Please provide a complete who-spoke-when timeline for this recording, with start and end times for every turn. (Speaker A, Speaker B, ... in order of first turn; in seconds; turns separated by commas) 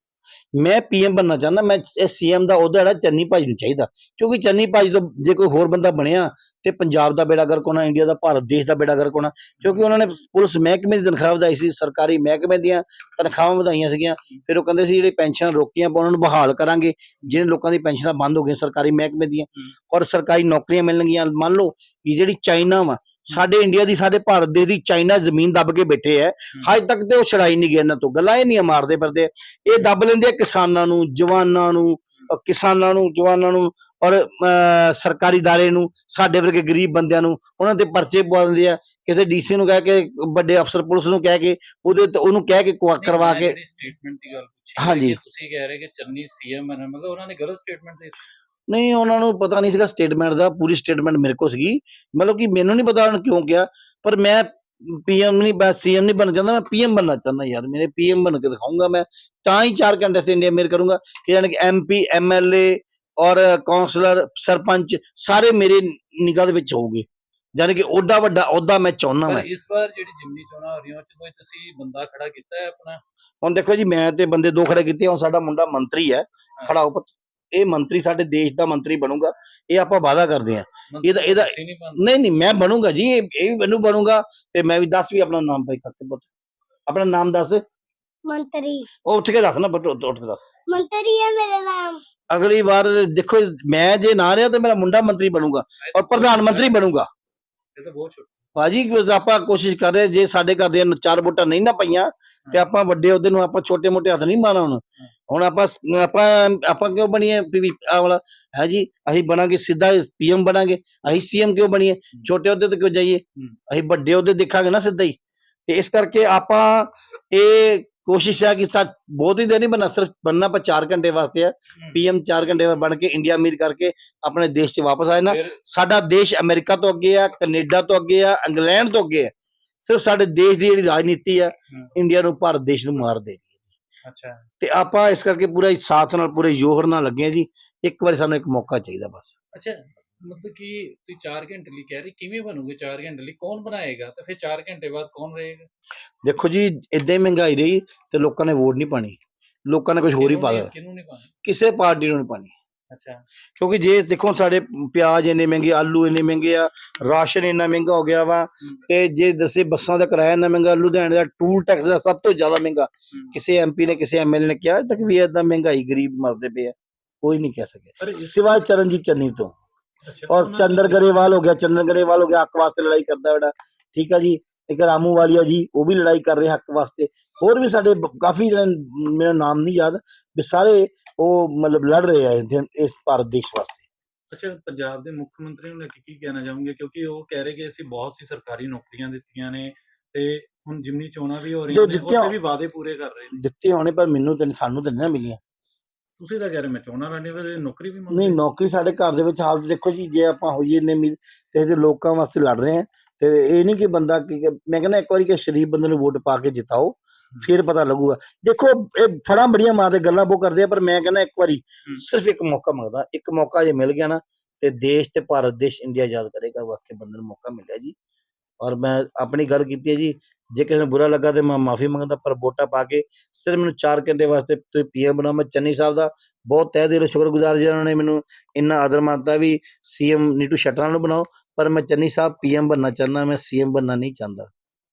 Speaker A: 0.6-43.6, Speaker B: 9.6-9.9, Speaker B: 43.0-48.3, Speaker A: 44.8-45.2, Speaker A: 48.7-69.5, Speaker B: 69.2-73.0, Speaker A: 73.4-86.3, Speaker B: 80.9-82.1, Speaker A: 86.9-87.6, Speaker C: 88.2-88.9, Speaker A: 89.0-90.4, Speaker C: 90.7-92.0, Speaker A: 92.3-97.1, Speaker B: 95.8-96.8, Speaker B: 97.8-98.4, Speaker A: 98.5-115.2, Speaker A: 115.7-129.3, Speaker B: 125.2-125.6, Speaker A: 129.8-133.5, Speaker B: 134.0-134.4, Speaker A: 134.6-139.3, Speaker B: 139.5-145.7, Speaker A: 146.2-150.7, Speaker B: 150.1-151.3, Speaker A: 151.4-152.5, Speaker B: 152.9-153.2, Speaker A: 153.6-169.5, Speaker B: 168.0-168.4, Speaker B: 170.0-171.0, Speaker A: 170.3-183.8, Speaker B: 184.3-193.4, Speaker A: 191.7-192.3, Speaker A: 193.3-195.4, Speaker B: 196.2-198.4, Speaker A: 198.1-217.9, Speaker A: 218.6-234.5